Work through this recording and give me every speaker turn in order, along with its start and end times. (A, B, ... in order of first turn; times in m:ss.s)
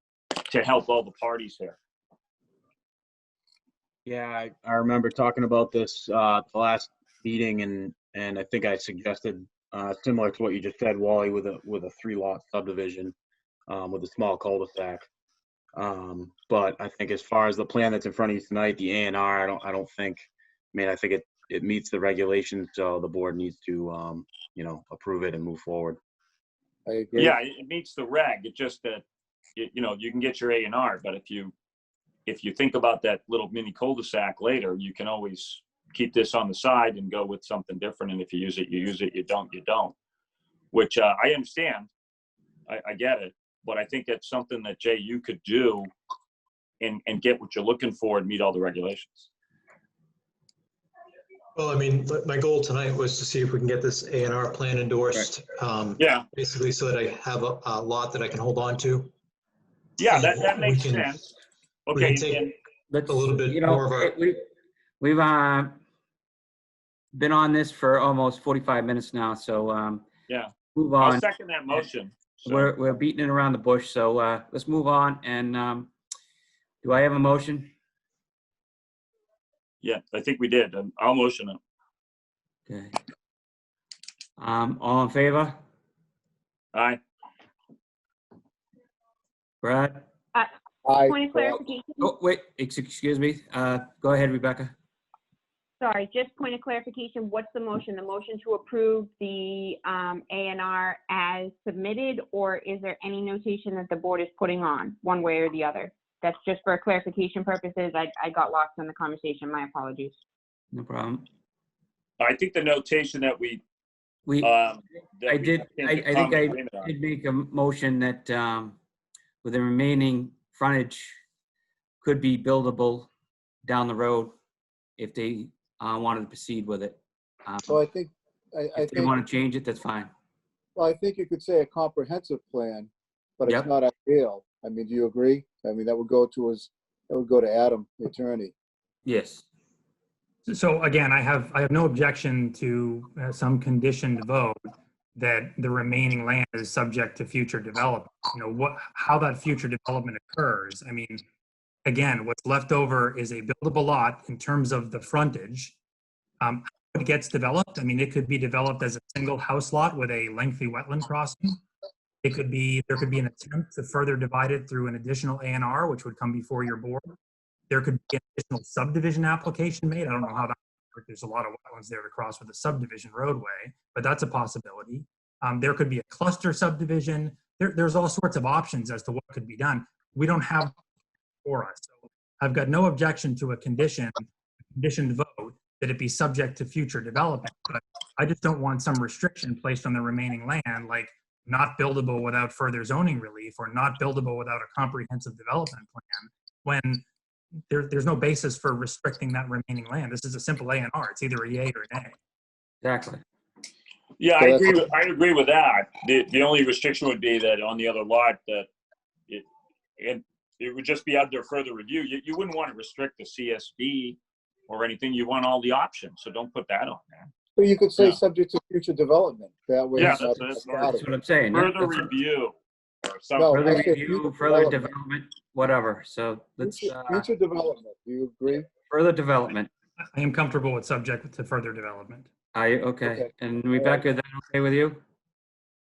0:00.5-0:01.8 A
0:04.0-0:13.1 B
0:13.7-0:15.1 B
0:15.8-0:26.0 B
0:26.9-0:27.4 C
0:27.2-0:29.0 A
0:29.6-0:31.5 A
0:32.3-0:39.9 A
0:40.7-0:41.9 A
0:42.7-0:45.9 A
0:46.8-0:49.3 A
0:51.6-0:59.1 D
0:56.0-0:56.2 A
1:00.0-1:01.2 A
1:00.0-1:01.3 D
1:01.9-1:02.5 A
1:01.9-1:02.5 D
1:02.9-1:04.4 E
1:03.1-1:04.2 D
1:05.0-1:05.8 E
1:07.1-1:10.0 E
1:10.3-1:12.7 A
1:10.7-1:11.3 E
1:12.4-1:15.9 E
1:16.8-1:17.7 E
1:19.8-1:21.6 A
1:22.7-1:23.0 E
1:24.4-1:25.6 E
1:26.7-1:27.0 A
1:29.6-1:30.0 E
1:30.3-1:32.1 F
1:30.8-1:31.6 C
1:31.6-1:34.7 E
1:35.8-1:50.2 F
1:50.7-1:51.3 E
1:52.2-1:53.6 A
1:54.3-1:54.5 E
1:54.4-1:56.9 A
1:55.3-1:58.8 E
1:59.4-2:01.2 E
2:02.0-2:03.1 E
2:03.6-2:04.4 E
2:05.0-2:07.8 E
2:07.7-2:09.2 C
2:08.8-2:10.1 E
2:10.8-2:18.5 C
2:19.1-2:19.4 E
2:20.5-2:24.6 G
2:25.2-2:31.2 G
2:31.8-2:35.8 G
2:36.4-2:41.6 G
2:42.2-2:47.1 G
2:47.7-3:00.8 G
3:01.4-3:17.0 G
3:17.7-3:22.1 G
3:22.8-3:23.2 E
3:24.2-3:28.7 A
3:24.4-3:24.8 C
3:30.0-3:37.3 A
3:37.6-3:41.1 C
3:40.0-3:40.9 A
3:40.0-3:42.1 E
3:41.5-3:43.8 A
3:43.4-3:44.8 C
3:43.5-3:47.3 E
3:46.6-3:48.7 C
3:48.9-3:49.7 E
3:50.2-3:52.3 G
3:52.5-3:55.0 E
3:53.0-3:54.0 C